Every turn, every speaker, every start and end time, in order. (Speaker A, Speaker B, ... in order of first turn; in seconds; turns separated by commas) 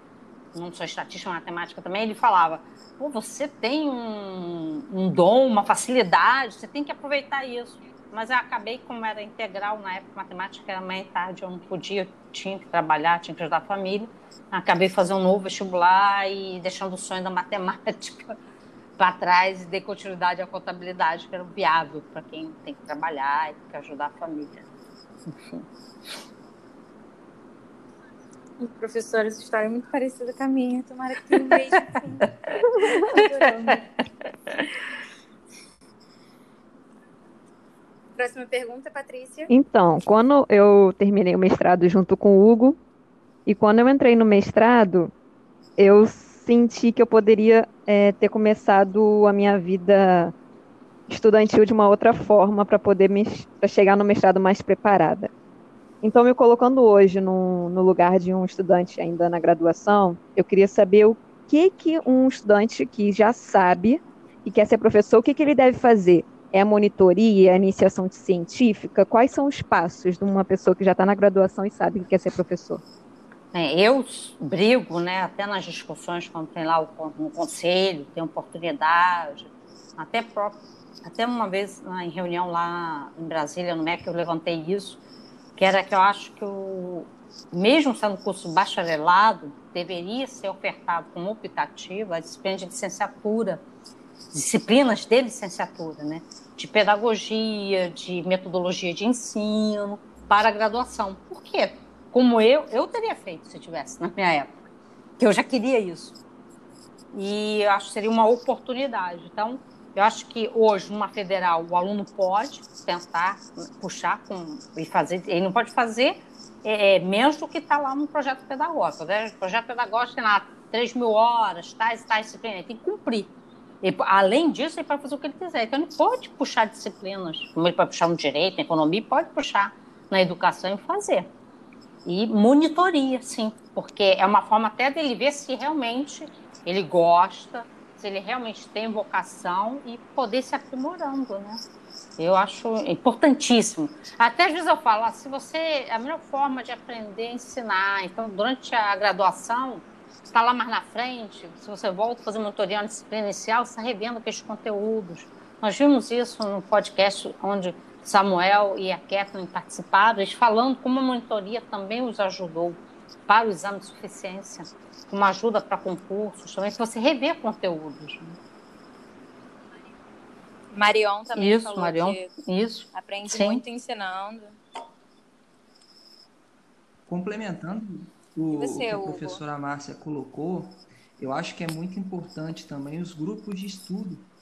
Speaker A: 0.5-18.4, Speaker A: 19.0-24.7, Speaker A: 25.3-25.6, Speaker B: 28.6-32.4, Speaker A: 32.2-34.6, Speaker B: 32.9-33.9, Speaker B: 38.1-39.5, Speaker C: 39.5-42.8, Speaker C: 43.5-45.1, Speaker C: 45.8-50.3, Speaker C: 51.1-55.3, Speaker C: 56.0-72.8, Speaker A: 73.5-85.0, Speaker A: 85.6-93.6, Speaker A: 94.3-104.5, Speaker A: 105.2-106.2, Speaker A: 107.1-131.3, Speaker A: 132.0-141.6, Speaker A: 142.2-168.4, Speaker B: 170.7-172.3, Speaker A: 171.3-173.6, Speaker B: 172.9-174.6, Speaker D: 177.1-184.2, Speaker B: 178.5-179.4